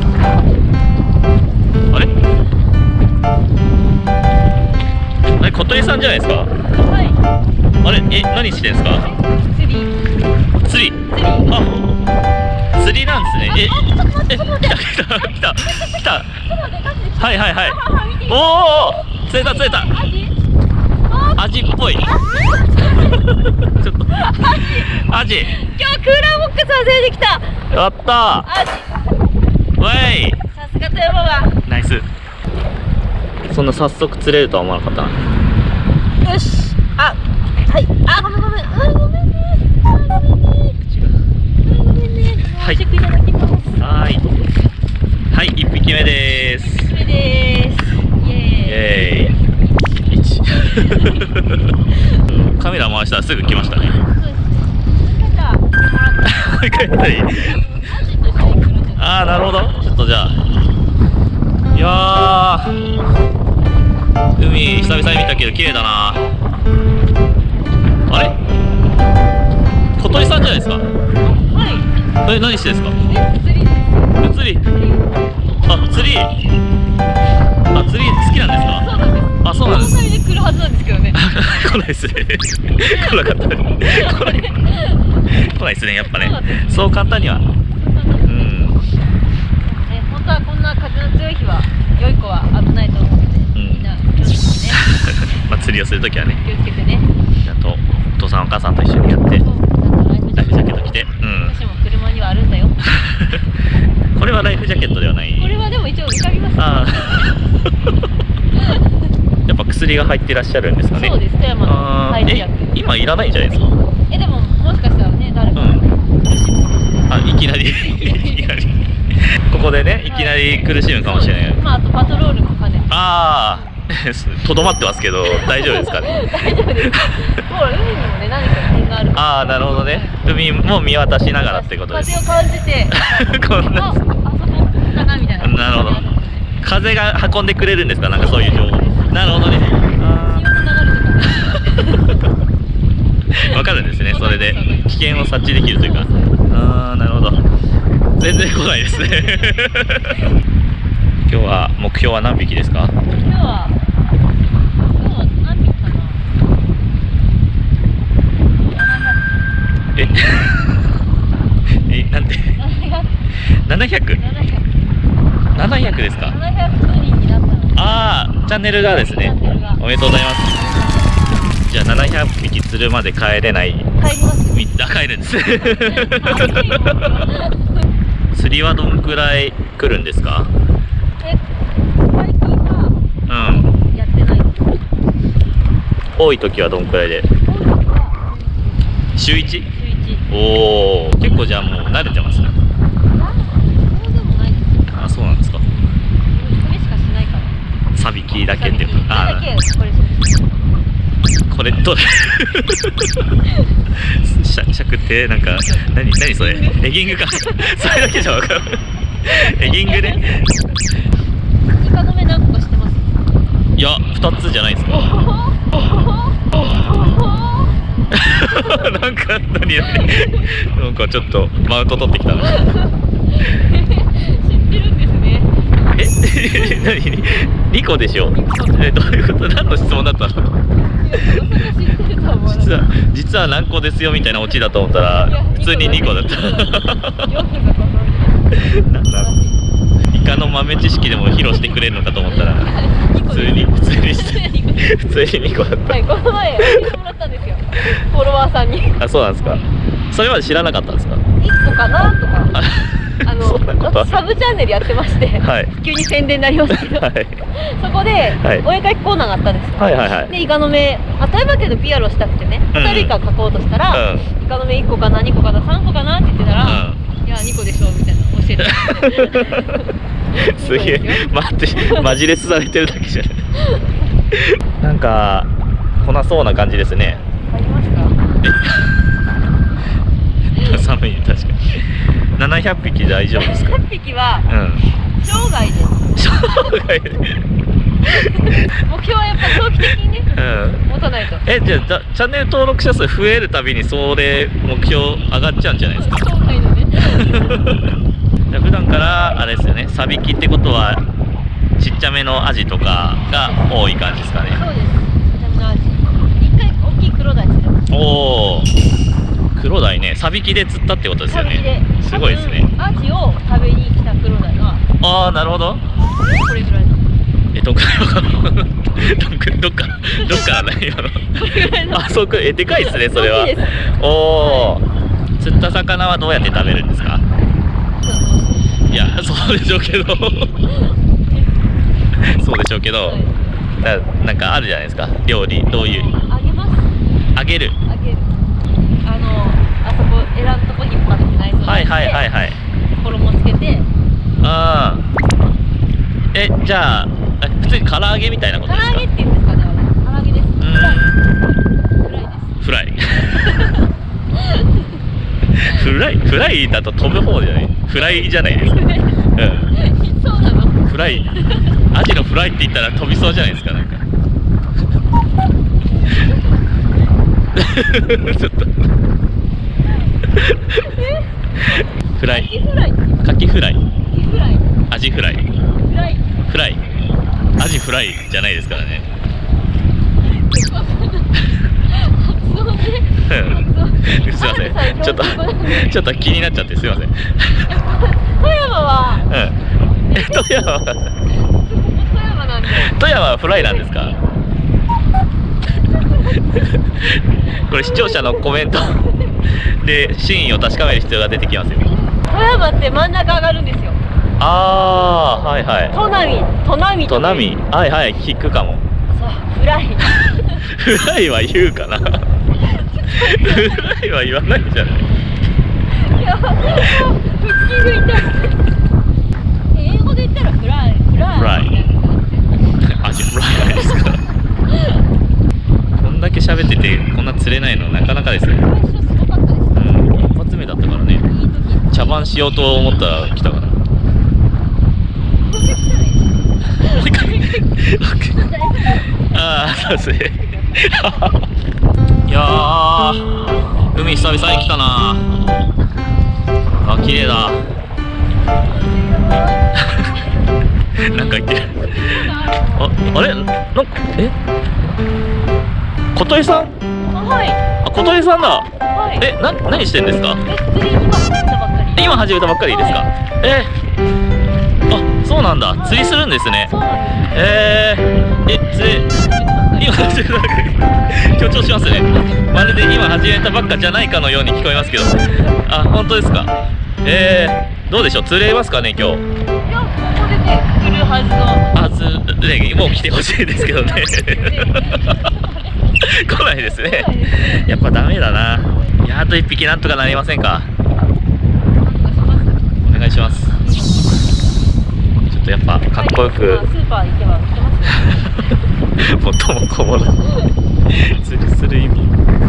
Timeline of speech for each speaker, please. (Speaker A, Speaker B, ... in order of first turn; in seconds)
Speaker A: 5.4-6.5, 7.8-9.1, 10.6-11.8, 12.7-16.4, 17.2-19.9, 21.4-22.1, 23.0-25.5, 27.7-28.5, 29.8-30.4, 31.6-32.1, 33.5-35.2, 40.9-41.2, 43.8-44.3, 45.3-46.9, 48.6-49.4, 50.1-51.7, 52.3-54.0, 56.2-57.6, 59.0-60.4, 61.7-62.8, 64.4-66.3, 68.1-68.3, 70.0-70.9, 72.2-73.0, 74.2-74.7, 75.7-76.4, 77.7-78.9, 79.4-80.0, 81.1-84.5, 85.3-87.4, 88.3-88.8, 93.5-93.8, 94.9-96.4, 97.4-99.5, 100.4-101.5, 102.9-103.5, 104.2-105.6, 106.6-107.6, 109.5-113.7, 115.5-115.9, 117.1-118.7, 119.3-121.6, 122.9-127.4, 129.2-132.2, 132.9-134.0, 135.4-136.0, 136.6-140.5, 143.3-147.4, 148.2-150.2, 151.3-152.9, 160.0-160.7, 161.9-162.6, 163.7-164.2, 165.6-166.3, 167.8-170.5, 171.7-173.9, 174.5-177.2, 178.3-180.5, 183.3-183.7, 186.2-187.3, 189.2-189.7, 190.3-192.6, 194.9-195.6, 197.9-199.5, 201.5-203.2, 204.0-210.5, 213.8-215.1, 218.1-222.7, 225.9-230.6, 231.2-231.6, 232.5-237.3, 238.6-239.3, 240.1-242.7, 243.3-246.1, 246.6-246.9, 249.0-251.2, 252.6-254.1, 255.4-255.7, 256.7-257.4, 258.4-258.7, 259.8-260.3, 262.7-263.2, 263.9-264.3, 266.6-267.0, 268.6-269.8, 270.4-273.4, 274.3-277.2, 278.4-278.8, 280.6-283.8, 284.5-284.8, 286.2-287.4, 289.4-290.9, 291.4-296.3, 297.0-297.8, 298.5-301.0, 301.8-304.6, 307.9-308.7, 309.6-312.7, 315.0-315.8, 317.5-324.8, 325.4-327.2, 328.9-330.6, 332.2-333.2, 333.8-336.1, 337.4-337.8, 341.6-342.6, 344.4-345.0, 346.3-349.1, 350.6-351.2, 352.6-353.6, 355.5-359.7, 360.9-361.3, 361.9-364.0, 367.5-368.7, 370.3-370.8, 371.7-372.5, 373.2-373.8, 374.9-375.4, 376.5-376.8, 377.6-379.1, 383.3-387.8, 389.3-389.6, 390.1-391.1, 392.7-394.2, 396.5-401.9, 404.4-406.0, 407.1-408.8, 410.6-412.2, 413.1-415.1, 416.7-417.0, 421.4-421.7, 422.8-424.2, 426.0-428.6, 429.7-431.3, 431.9-433.8, 436.8-441.4, 442.3-445.4, 446.8-447.6, 449.8-450.2, 451.0-454.3, 456.1-456.7, 457.8-460.4, 462.0-463.7, 464.9-466.7, 467.3-469.1, 469.8-476.5, 477.0-479.2, 481.7-485.2, 486.0-490.7, 492.8-493.6, 495.3-496.6, 498.0-500.2, 500.9-502.2
Speaker B: 6.7-7.2, 8.7-10.0, 11.1-11.5, 13.5-20.3, 21.1-21.5, 22.7-23.3, 24.1-27.6, 28.4-29.0, 30.5-31.6, 36.2-40.8, 41.6-43.9, 46.6-51.3, 52.0-52.2, 54.0-59.5, 71.2-71.9, 73.0-75.2, 78.7-81.7, 82.8-88.7, 89.6-94.9, 96.3-97.1, 99.3-102.8, 105.4-107.5, 108.5-109.1, 110.9-112.8, 114.1-118.6, 120.0-123.8, 125.2-130.2, 131.4-136.5, 138.1-139.5, 140.2-142.2, 143.3-146.7, 149.0-149.6, 153.1-153.8, 154.9-156.2, 158.7-159.2, 162.6-163.1, 164.1-164.7, 166.1-167.9, 168.8-169.8, 170.5-171.5, 174.0-174.6, 175.6-177.9, 181.2-181.5, 182.0-184.8, 187.4-189.0, 189.7-190.3, 193.1-195.0, 196.2-197.6, 198.5-200.8, 206.4-208.3, 209.2-210.4, 211.8-213.1, 214.9-217.8, 218.5-218.9, 219.8-220.6, 222.4-225.7, 228.3-228.9, 231.0-232.9, 235.2-239.6, 242.3-245.0, 245.9-249.7, 251.4-252.6, 253.2-272.1, 273.6-274.0, 277.1-278.2, 283.4-284.5, 285.1-286.7, 288.0-290.3, 290.9-291.4, 295.9-297.4, 303.3-303.8, 304.4-308.0, 311.3-314.8, 316.3-317.1, 320.2-320.7, 321.3-322.2, 322.7-324.8, 328.0-328.8, 330.7-331.0, 333.0-333.6, 335.8-336.9, 337.9-338.4, 339.0-342.2, 343.0-343.9, 348.6-351.2, 352.0-355.0, 355.6-355.9, 357.9-361.8, 366.0-366.6, 369.9-373.3, 374.1-374.8, 375.8-376.3, 380.2-385.9, 387.7-389.4, 389.9-390.7, 391.2-393.0, 395.8-398.5, 399.1-399.3, 401.9-404.0, 405.9-407.5, 409.1-410.7, 412.6-413.9, 415.9-418.7, 419.7-423.0, 423.5-425.0, 428.6-430.0, 431.2-432.5, 435.4-437.8, 438.3-439.7, 448.7-450.4, 451.7-453.0, 457.1-457.6, 458.9-459.3, 460.4-462.1, 462.7-463.1, 466.6-467.7, 468.9-470.0, 472.0-472.5, 479.6-481.8, 483.6-487.9, 491.7-492.7, 493.6-494.4, 495.9-498.6